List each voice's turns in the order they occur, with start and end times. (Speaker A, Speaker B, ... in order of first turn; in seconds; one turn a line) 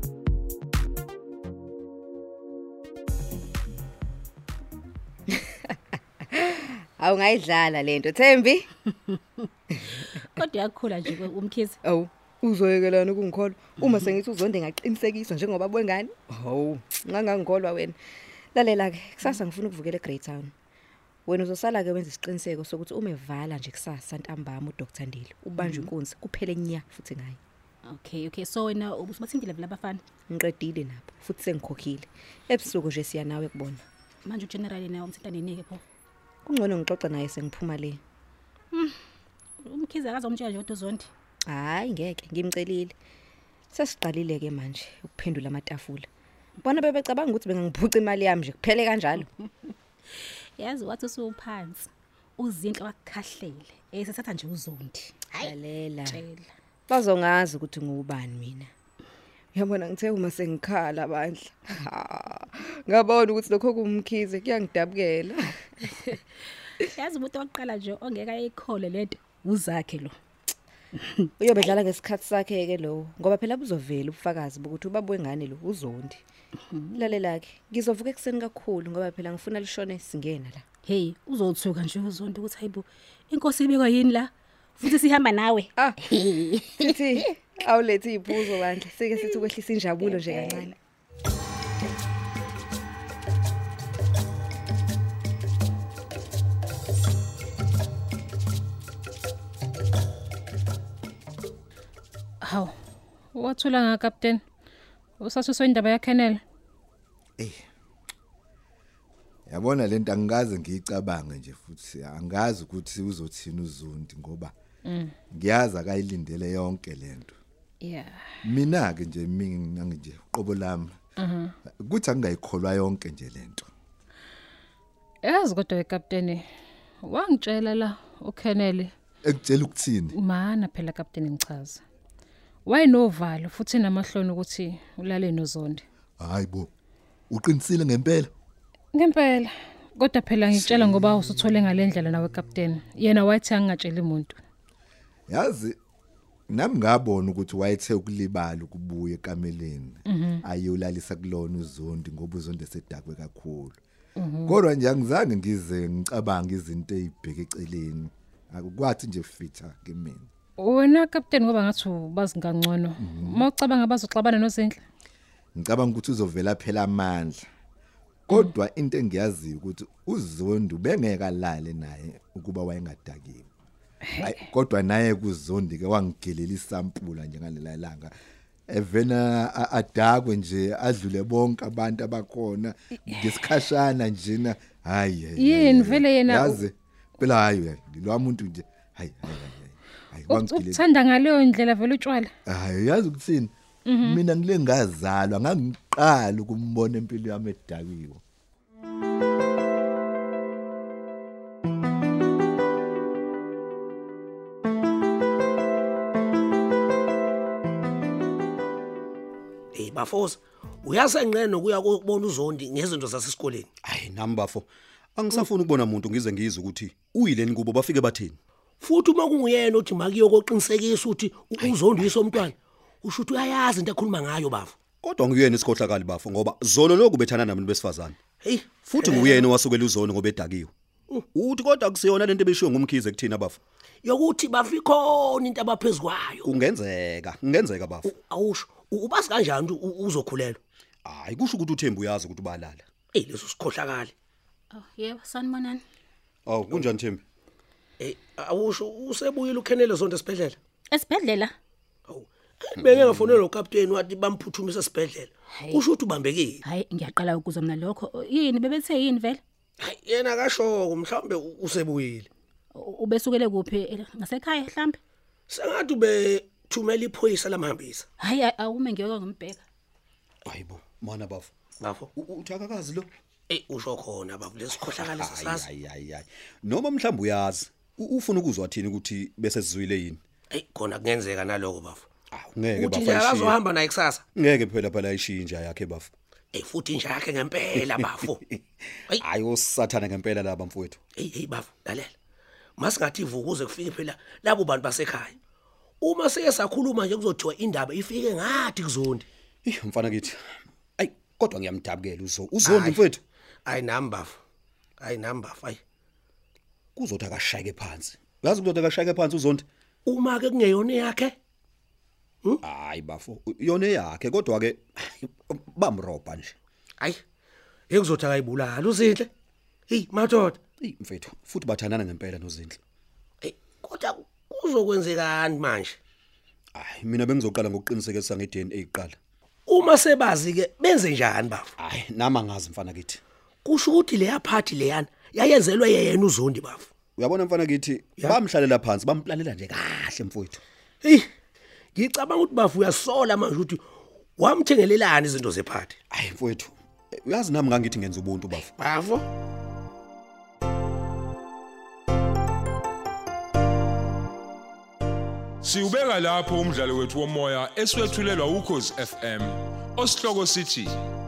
Speaker A: 6.3-8.7
Speaker B: 9.1-9.4
Speaker B: 10.0-11.8
Speaker A: 11.8-18.0
Speaker A: 18.5-20.5
Speaker A: 21.2-27.4
Speaker B: 25.6-25.9
Speaker B: 27.9-30.0
Speaker A: 30.3-33.8
Speaker B: 34.2-35.8
Speaker A: 36.5-38.0
Speaker B: 38.7-39.0
Speaker B: 39.6-41.1
Speaker A: 41.5-42.9
Speaker A: 43.7-46.1
Speaker A: 46.6-49.3
Speaker B: 50.2-55.5
Speaker A: 55.3-56.2
Speaker B: 56.1-56.5
Speaker A: 56.9-58.7
Speaker A: 59.5-65.9
Speaker B: 66.9-70.1
Speaker B: 71.0-71.3
Speaker A: 71.4-76.2
Speaker B: 76.7-77.1
Speaker A: 77.0-80.6
Speaker B: 80.8-87.0
Speaker A: 86.8-90.7
Speaker B: 90.0-90.7
Speaker C: 102.4-102.7
Speaker C: 103.3-104.4
Speaker C: 105.2-106.4
Speaker D: 107.4-107.6
Speaker D: 109.5-114.5
Speaker C: 114.9-115.1
Speaker D: 115.3-117.3
Speaker C: 117.8-118.2
Speaker D: 118.4-120.9
Speaker C: 121.2-121.5
Speaker D: 121.8-123.7
Speaker C: 125.2-126.4
Speaker C: 127.0-128.9
Speaker D: 129.2-130.2
Speaker C: 130.1-131.8
Speaker C: 132.7-135.8
Speaker D: 136.2-136.7
Speaker D: 137.3-138.3
Speaker C: 138.9-144.4
Speaker D: 145.3-145.8
Speaker D: 146.5-153.8
Speaker C: 150.1-150.4
Speaker C: 154.2-154.6
Speaker D: 154.5-160.3
Speaker C: 160.6-164.8
Speaker D: 163.0-163.5
Speaker D: 165.6-167.4
Speaker D: 168.3-173.5
Speaker C: 174.0-174.4
Speaker D: 174.2-178.1
Speaker D: 178.7-190.8
Speaker C: 185.4-186.6
Speaker C: 190.3-192.3
Speaker D: 192.5-198.2
Speaker C: 193.9-194.2
Speaker E: 209.7-213.7
Speaker F: 213.8-218.4
Speaker E: 218.8-224.8
Speaker F: 221.6-222.2
Speaker F: 225.0-228.2
Speaker E: 228.4-229.5
Speaker F: 228.9-230.7
Speaker F: 231.3-233.6
Speaker E: 234.0-236.5
Speaker F: 236.4-238.1
Speaker E: 238.1-240.6
Speaker F: 241.0-242.8
Speaker E: 243.1-244.1
Speaker B: 244.7-245.8
Speaker F: 246.5-247.2
Speaker E: 248.0-250.6
Speaker B: 250.9-251.5
Speaker E: 252.1-256.6
Speaker F: 252.8-253.4
Speaker B: 256.6-259.4
Speaker E: 259.8-262.3
Speaker B: 262.7-265.0
Speaker E: 265.5-268.1
Speaker B: 268.2-269.6
Speaker F: 270.5-271.5
Speaker E: 271.8-272.1
Speaker F: 272.1-273.1
Speaker E: 273.5-275.7
Speaker F: 275.0-280.2
Speaker E: 280.5-282.1
Speaker F: 282.3-283.6
Speaker E: 282.8-284.2
Speaker F: 284.4-286.1
Speaker E: 286.5-288.4
Speaker F: 288.0-288.6
Speaker F: 289.1-291.0
Speaker E: 291.2-292.1
Speaker E: 292.8-295.4
Speaker E: 296.0-299.2
Speaker F: 299.6-300.4
Speaker F: 301.0-303.2
Speaker E: 302.6-303.0
Speaker E: 303.6-304.4
Speaker E: 305.0-305.8
Speaker F: 307.0-309.6
Speaker E: 310.1-311.4
Speaker F: 312.6-316.5
Speaker E: 317.9-319.3
Speaker E: 319.9-320.6
Speaker F: 320.8-322.8
Speaker E: 323.4-326.0
Speaker F: 326.8-329.1
Speaker E: 329.7-331.7
Speaker F: 331.8-333.2
Speaker E: 333.6-336.9
Speaker F: 337.2-340.6
Speaker E: 341.0-341.3
Speaker E: 341.9-343.8
Speaker E: 344.4-345.9
Speaker F: 346.1-346.7
Speaker F: 347.2-348.7
Speaker E: 348.8-349.2
Speaker G: 355.6-361.0